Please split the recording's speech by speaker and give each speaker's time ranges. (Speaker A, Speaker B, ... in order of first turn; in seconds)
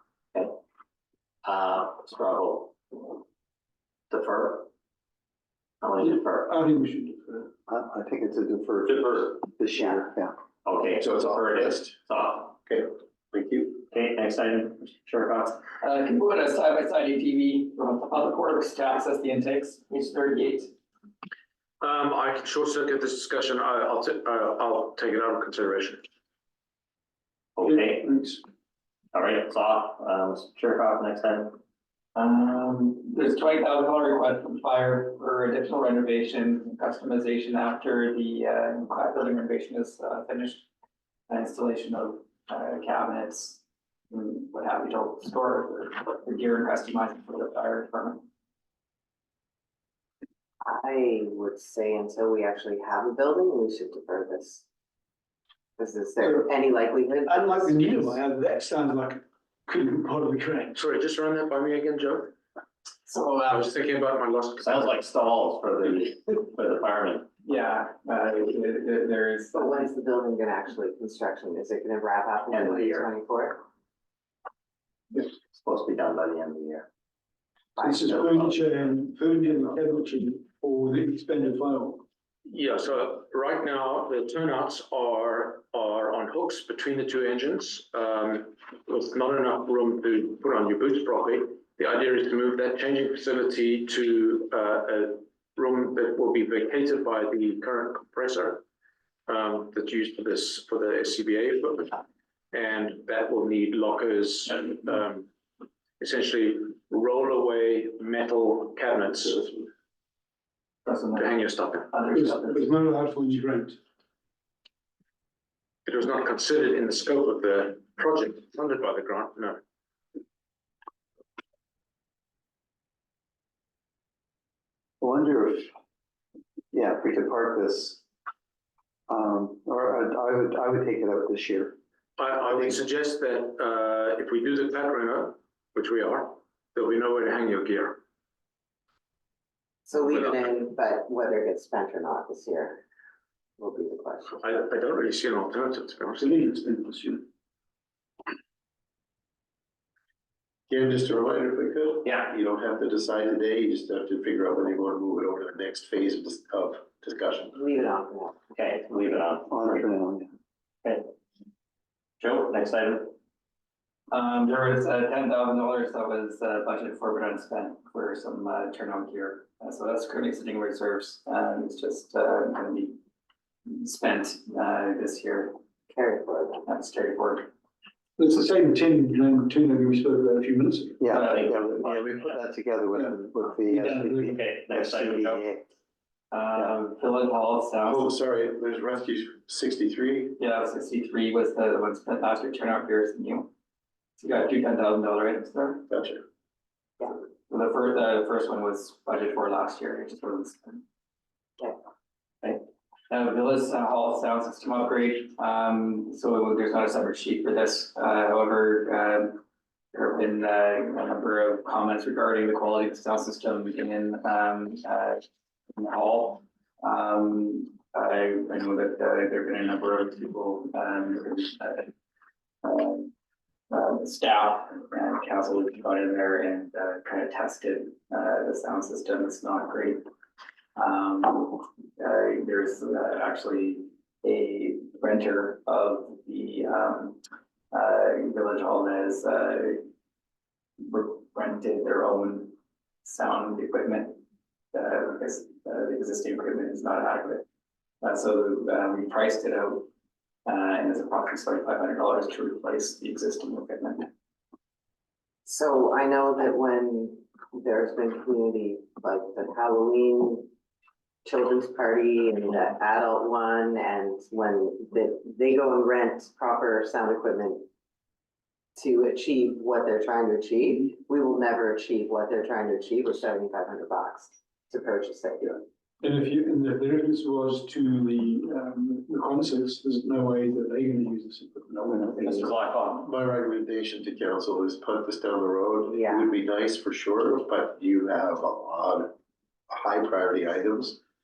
Speaker A: 1.4-3.1, 4.1-4.7, 5.8-6.5, 8.9-9.6, 10.6-12.6, 13.9-15.6, 27.6-28.1, 29.1-31.6, 64.6-67.3, 72.5-73.1, 75.1-76.9, 78.1-78.6, 152.0-152.3, 158.5-159.8, 160.8-161.1, 162.2-163.1, 181.2-182.3, 184.3-185.4, 282.2-283.1
Speaker B: 6.0-7.5, 27.6-28.4, 56.2-56.5, 57.3-60.8, 77.8-82.0, 112.1-113.8, 146.2-147.3, 178.2-181.1, 182.9-184.4, 276.0-282.5
Speaker C: 7.7-10.3, 125.0-125.7, 126.7-128.0, 129.1-131.8, 132.4-132.8, 159.5-160.3, 181.0-185.7
Speaker D: 11.0-11.9, 12.7-13.8, 150.7-157.6, 187.8-190.4, 195.9-196.2, 283.0-289.1, 289.7-291.0
Speaker E: 15.8-20.7, 32.1-40.6, 41.3-48.2, 63.0-63.4, 67.4-69.9, 110.8-112.7, 164.1-173.0, 173.7-175.5, 176.6-177.5, 181.1-181.5, 186.3-188.1, 190.4-193.5, 194.2-195.8, 197.5-200.8, 203.1-209.4, 209.9-221.9, 222.6-223.1, 223.7-230.0, 230.8-237.2, 237.7-239.8, 240.8-244.2, 244.7-247.4, 248.0-249.9, 250.4-254.1
Speaker F: 21.8-26.0, 60.7-62.3, 63.5-64.9, 82.5-98.6, 99.3-102.0, 102.5-105.3, 106.0-109.6, 111.1-112.0, 115.8-119.6, 132.2-138.0, 140.1-140.4, 144.4-146.3
Speaker G: 50.6-54.6, 55.8-58.1, 69.5-73.6, 77.8-78.5, 139.8-142.8, 143.6-144.4, 157.5-158.4, 175.9-176.6, 255.4-260.5, 261.2-267.6, 268.8-275.6, 285.9-286.3